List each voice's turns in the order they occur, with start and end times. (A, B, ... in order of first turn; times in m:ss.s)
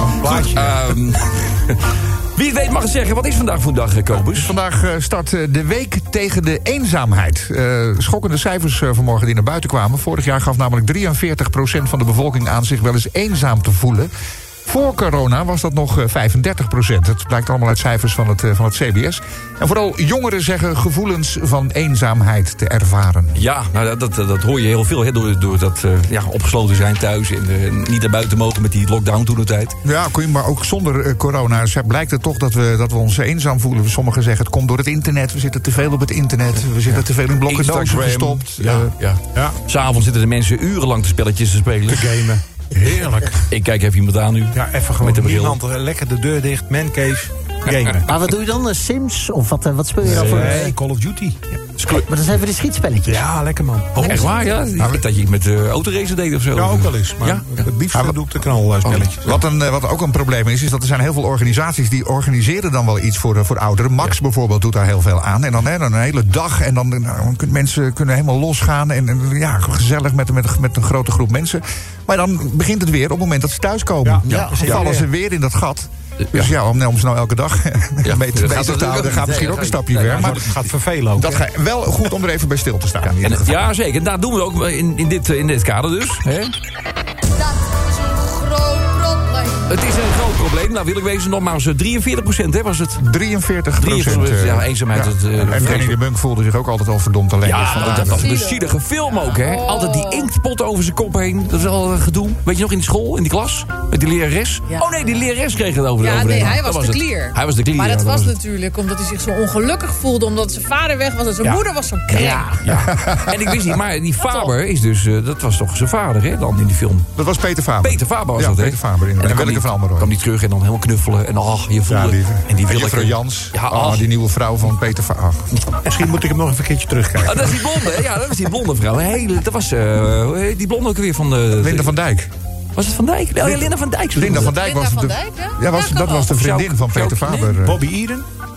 0:00.2-0:04.5 A
0:00.2-0:00.7 B
0:00.2-0:00.5 C
0:04.2-0:14.1 C
0:14.6-0:23.4 C
0:23.4-0:29.8 A
0:29.8-0:38.9 C
0:36.9-0:42.2 A
0:41.9-0:43.4 B
0:42.9-0:45.6 A
0:44.5-0:48.1 B
0:47.7-0:48.0 A
0:48.1-0:50.7 D
0:50.0-0:51.4 B
0:50.0-0:50.7 A
0:51.8-0:52.0 A
0:51.8-0:53.3 D
0:53.0-0:54.3 B
0:54.0-0:57.7 A
0:56.5-0:59.4 B
0:57.9-0:58.2 C
0:58.9-1:23.7 C
1:14.0-1:15.1 B
1:14.3-1:14.6 D
1:14.3-1:14.9 A
1:16.2-1:16.5 A
1:18.0-1:20.5 A
1:20.1-1:21.4 B
1:23.1-1:26.5 A
1:27.3-1:29.7 E
1:29.7-1:33.0 A
1:33.0-1:38.3 C
1:33.8-1:36.0 A
1:37.4-1:48.4 A
1:38.2-1:38.6 F
1:39.2-1:40.3 F
1:46.0-1:52.6 F
1:51.4-1:57.1 A
1:52.2-1:52.5 D
1:52.7-1:53.8 C
1:54.2-1:54.5 F
1:57.2-2:00.1 C
1:57.8-2:04.1 A
2:01.9-2:05.5 C
2:05.8-2:07.7 B
2:07.2-2:12.0 A
2:11.6-2:12.3 C
2:12.8-2:14.6 A
2:13.4-2:17.8 C
2:14.5-2:16.3 F
2:16.3-2:17.5 A
2:17.6-2:18.3 B